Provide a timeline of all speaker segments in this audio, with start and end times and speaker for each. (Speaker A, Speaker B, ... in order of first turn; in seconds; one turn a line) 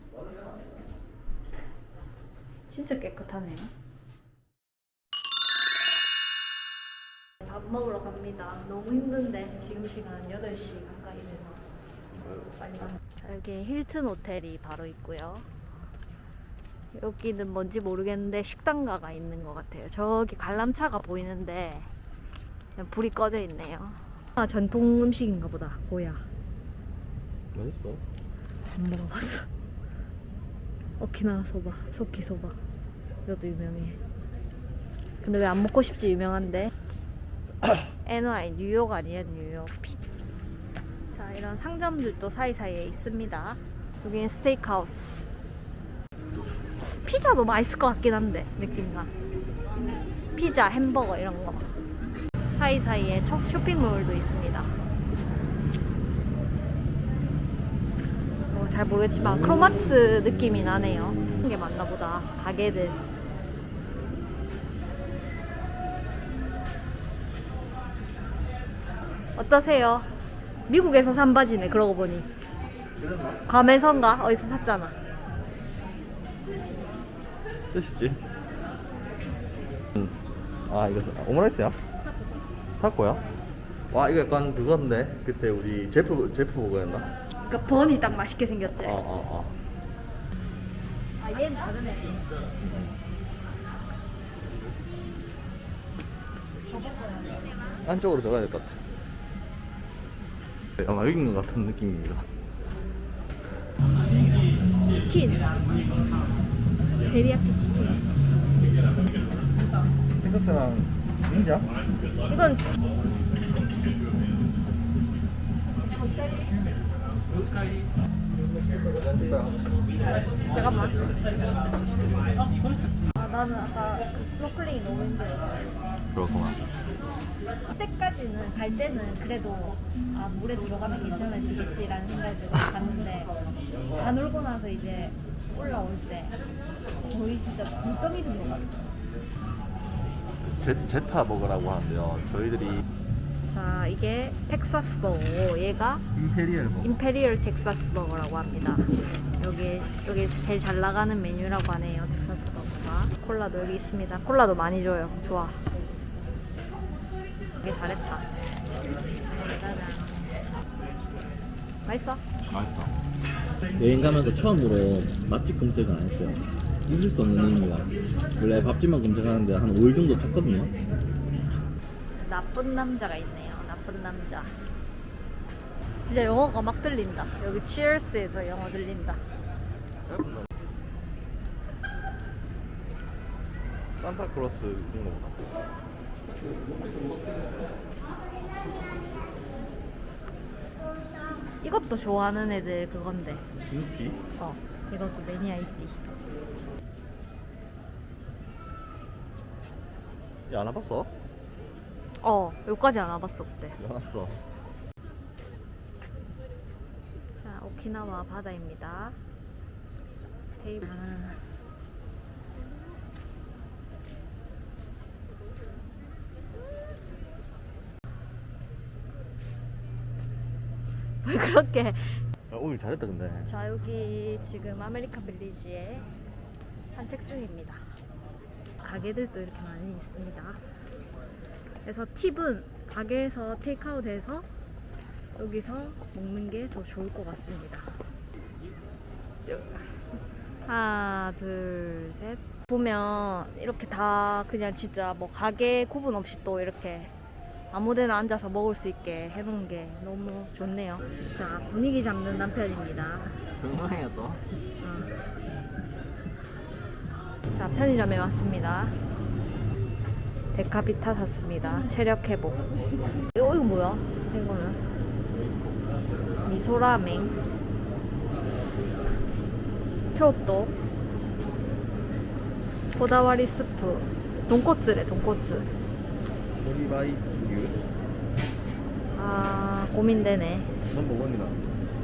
Speaker A: 0.1-0.6
Speaker B: 2.7-3.7
Speaker B: 7.4-11.6
Speaker A: 12.1-12.9
Speaker B: 12.6-15.5
Speaker B: 16.9-21.9
Speaker B: 22.8-26.3
Speaker A: 27.5-28.0
Speaker B: 28.7-29.5
Speaker B: 31.0-32.6
Speaker B: 33.2-34.0
Speaker B: 35.2-36.7
Speaker A: 37.6-37.9
Speaker B: 38.0-40.0
Speaker B: 41.1-45.3
Speaker B: 46.8-49.1
Speaker B: 50.4-51.7
Speaker B: 52.5-54.7
Speaker B: 58.5-63.0
Speaker B: 69.3-70.1
Speaker B: 70.7-72.3
Speaker A: 73.0-73.4
Speaker B: 73.5-75.0
Speaker A: 77.7-78.2
Speaker A: 80.0-81.8
Speaker A: 82.8-83.2
Speaker A: 83.9-87.1
Speaker B: 87.5-89.0
Speaker A: 88.8-89.6
Speaker B: 91.2-92.2
Speaker A: 92.6-93.0
Speaker A: 97.8-98.8
Speaker A: 100.8-102.3
Speaker B: 104.9-105.5
Speaker B: 107.0-108.0
Speaker A: 110.2-111.7
Speaker B: 112.3-112.7
Speaker A: 118.8-119.6
Speaker B: 120.5-121.2
Speaker B: 123.1-125.7
Speaker A: 126.1-126.6
Speaker B: 127.7-133.3
Speaker B: 133.9-136.4
Speaker B: 137.1-138.8
Speaker A: 140.6-142.8
Speaker B: 143.5-146.0
Speaker A: 146.1-146.9
Speaker B: 146.8-155.6
Speaker B: 157.6-158.3
Speaker B: 159.3-160.4
Speaker B: 161.8-162.2
Speaker A: 162.5-163.0
Speaker A: 163.8-170.7
Speaker B: 172.2-174.6
Speaker B: 176.0-179.2
Speaker A: 180.1-180.5
Speaker A: 184.0-185.6
Speaker B: 191.6-193.5
Speaker A: 193.7-194.2
Speaker B: 194.4-196.2
Speaker A: 200.5-201.1
Speaker B: 202.2-203.8
Speaker A: 203.8-204.4
Speaker B: 207.4-209.2
Speaker B: 210.6-211.5
Speaker B: 221.2-222.3
Speaker A: 222.5-223.5
Speaker B: 223.5-226.1
Speaker B: 226.9-228.0
Speaker B: 228.8-230.6
Speaker B: 231.8-234.5
Speaker B: 235.4-238.0
Speaker B: 239.5-247.1
Speaker B: 247.7-253.5
Speaker A: 253.6-254.4
Speaker B: 254.8-255.2
Speaker B: 257.5-259.0
Speaker B: 260.5-262.7
Speaker B: 263.3-264.8
Speaker B: 266.4-267.3
Speaker B: 270.1-270.8
Speaker B: 272.9-275.7
Speaker A: 276.6-277.8
Speaker B: 279.1-280.8
Speaker A: 280.9-281.6